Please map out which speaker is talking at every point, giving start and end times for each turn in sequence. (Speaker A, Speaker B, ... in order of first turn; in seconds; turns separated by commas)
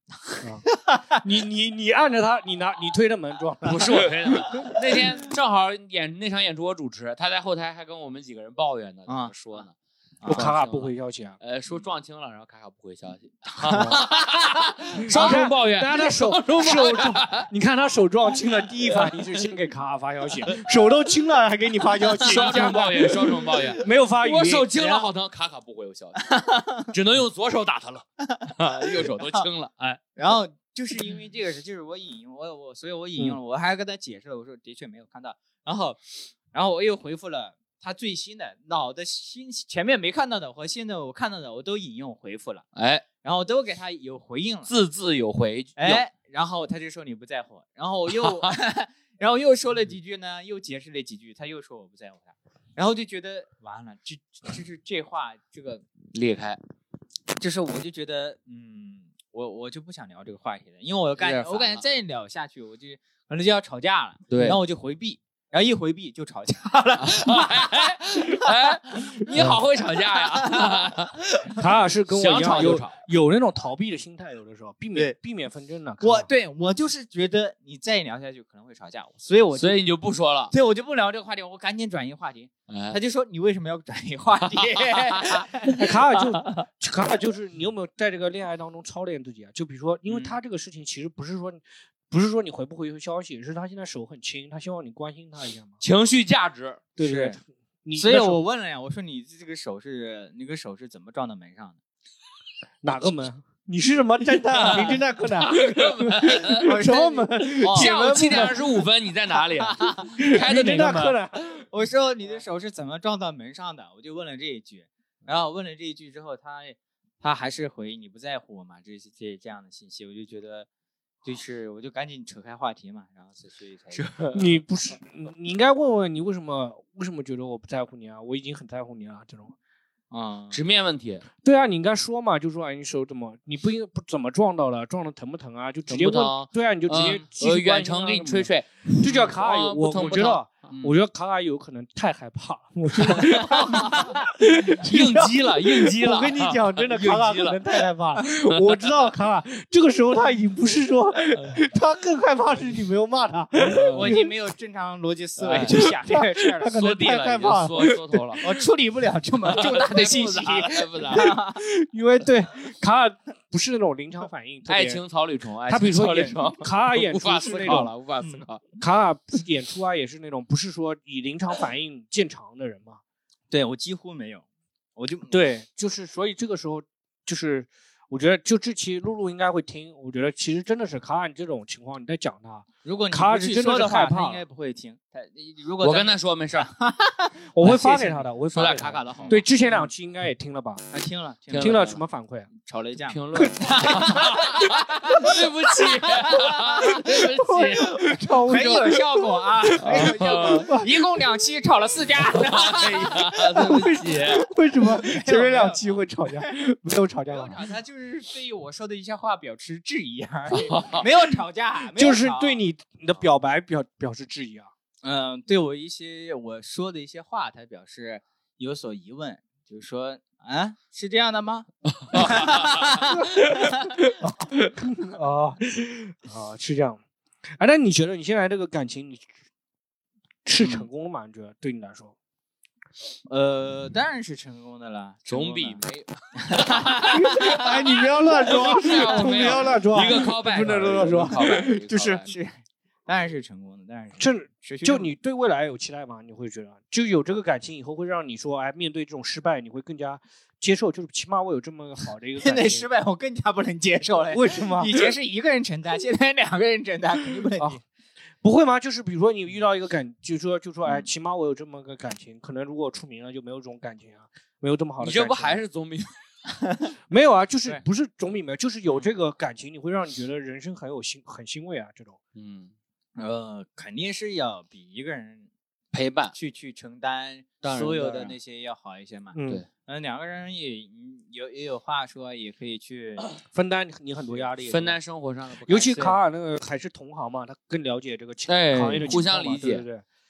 Speaker A: 0.1-1.2, Speaker B: 1.2-4.8, Speaker C: 3.6-17.5, Speaker A: 3.9-5.0, Speaker A: 9.1-9.7, Speaker A: 10.2-10.5, Speaker B: 10.3-11.4, Speaker A: 13.6-15.4, Speaker B: 13.7-14.0, Speaker B: 15.1-24.7, Speaker A: 22.1-22.8, Speaker C: 22.2-26.2, Speaker A: 24.7-25.1, Speaker A: 26.2-26.9, Speaker C: 26.9-30.0, Speaker A: 28.4-29.4, Speaker A: 30.1-42.6, Speaker C: 42.8-43.0, Speaker A: 43.2-44.7, Speaker C: 44.7-46.0, Speaker A: 45.8-55.8, Speaker C: 48.1-48.5, Speaker C: 56.1-56.6, Speaker A: 57.4-71.6, Speaker C: 61.2-61.8, Speaker C: 64.3-64.6, Speaker C: 67.0-71.3, Speaker B: 71.5-76.3, Speaker C: 72.1-73.0, Speaker A: 76.0-79.8, Speaker C: 79.5-80.5, Speaker A: 80.5-86.0, Speaker C: 82.7-83.0, Speaker C: 84.5-85.4, Speaker B: 85.7-95.8, Speaker A: 90.1-90.3, Speaker C: 95.8-96.8, Speaker B: 97.0-98.4, Speaker A: 97.0-97.4, Speaker A: 97.9-101.8, Speaker B: 102.8-108.6, Speaker A: 104.5-105.0, Speaker C: 105.5-106.7, Speaker A: 106.6-108.6, Speaker C: 107.6-111.2, Speaker A: 109.3-110.3, Speaker B: 110.2-111.6, Speaker A: 111.5-120.7, Speaker A: 121.2-124.5, Speaker C: 123.9-124.4, Speaker B: 124.3-129.5, Speaker A: 130.1-130.6, Speaker C: 130.5-131.2, Speaker B: 131.4-154.3, Speaker C: 135.9-140.9, Speaker C: 143.1-143.4, Speaker A: 143.7-144.1, Speaker C: 144.8-147.6, Speaker C: 153.6-154.1, Speaker A: 153.7-157.5, Speaker C: 155.4-155.8, Speaker B: 155.5-158.2, Speaker C: 156.7-158.5, Speaker A: 158.4-161.6, Speaker C: 159.5-161.3, Speaker B: 161.1-165.0, Speaker C: 164.7-168.6, Speaker B: 165.7-167.9, Speaker A: 167.6-168.4, Speaker B: 168.8-173.0, Speaker A: 173.5-174.4, Speaker A: 174.9-175.4, Speaker B: 175.3-184.4, Speaker A: 182.8-188.1, Speaker C: 185.8-186.7, Speaker B: 187.5-190.8, Speaker C: 187.6-189.4, Speaker A: 189.1-189.9, Speaker A: 190.9-191.9, Speaker C: 191.5-192.0, Speaker B: 191.6-192.5, Speaker A: 192.5-197.6, Speaker C: 193.1-198.1, Speaker B: 193.3-194.2, Speaker B: 197.0-199.0, Speaker A: 198.3-204.0, Speaker B: 199.7-200.9, Speaker C: 199.8-200.8, Speaker C: 202.3-204.4, Speaker B: 203.6-207.6, Speaker A: 204.7-206.5, Speaker A: 207.3-212.6, Speaker C: 210.5-211.0, Speaker B: 212.0-214.7, Speaker A: 215.0-224.0, Speaker C: 222.0-222.9, Speaker B: 223.0-227.0, Speaker B: 227.6-229.3, Speaker B: 230.4-232.1, Speaker A: 233.2-235.8, Speaker C: 235.3-242.3, Speaker A: 236.4-245.1, Speaker B: 237.1-241.6, Speaker B: 244.2-252.9, Speaker A: 252.4-257.8, Speaker B: 254.3-255.1, Speaker B: 258.4-265.6, Speaker C: 265.0-266.1, Speaker B: 267.1-272.2, Speaker C: 272.4-272.7, Speaker A: 273.2-275.5, Speaker C: 275.9-276.3, Speaker A: 276.3-283.2, Speaker C: 277.6-278.4, Speaker B: 279.3-279.6, Speaker B: 283.5-284.9, Speaker C: 284.6-286.1, Speaker B: 285.7-290.0, Speaker C: 288.5-289.8